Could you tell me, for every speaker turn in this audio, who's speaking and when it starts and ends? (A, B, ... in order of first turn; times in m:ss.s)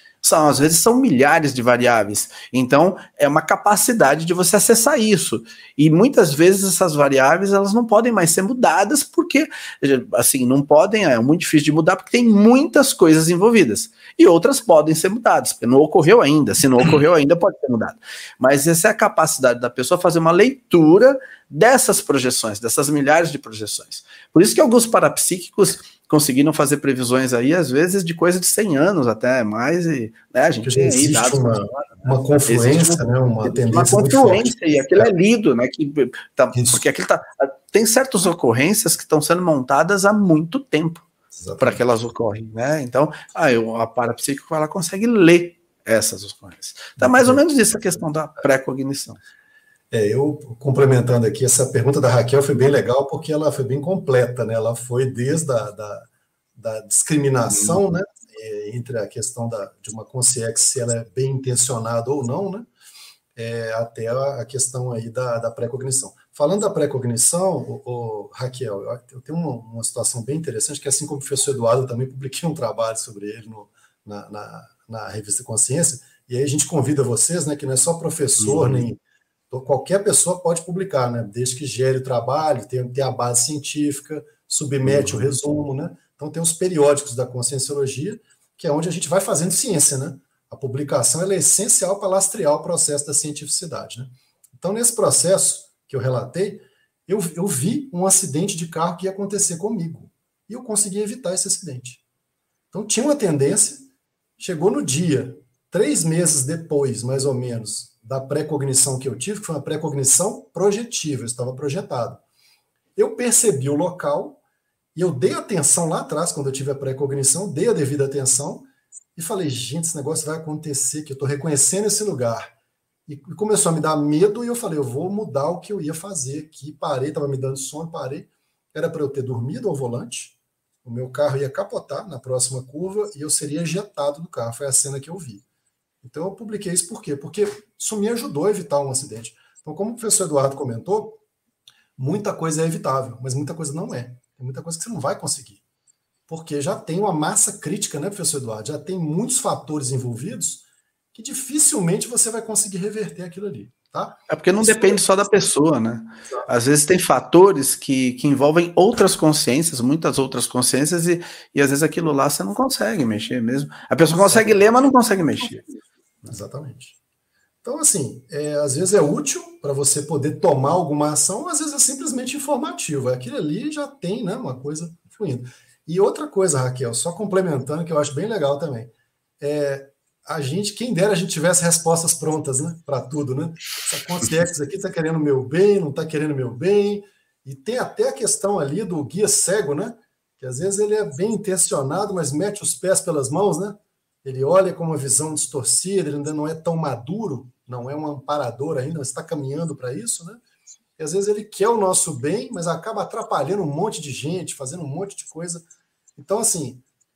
0:00.2-0:41.1 A
0:30.6-0:35.1 B
0:36.5-0:36.8 B
0:41.3-0:41.8 B
0:41.6-0:49.2 A
0:47.0-0:47.4 B
0:49.9-1:02.7 B
0:57.5-0:57.8 A
1:03.4-1:19.0 B
1:18.4-1:18.8 A
1:19.5-1:42.0 B
1:24.8-1:25.2 A
1:42.7-1:52.2 B
1:53.0-1:54.4 B
1:54.9-2:02.5 B
2:03.0-2:15.4 B
2:16.0-2:21.2 B
2:22.0-2:25.6 B
2:26.3-2:35.0 B
2:34.3-2:45.6 A
2:44.2-2:44.7 B
2:46.2-2:46.9 B
2:47.6-3:20.4 B
3:21.0-3:26.8 B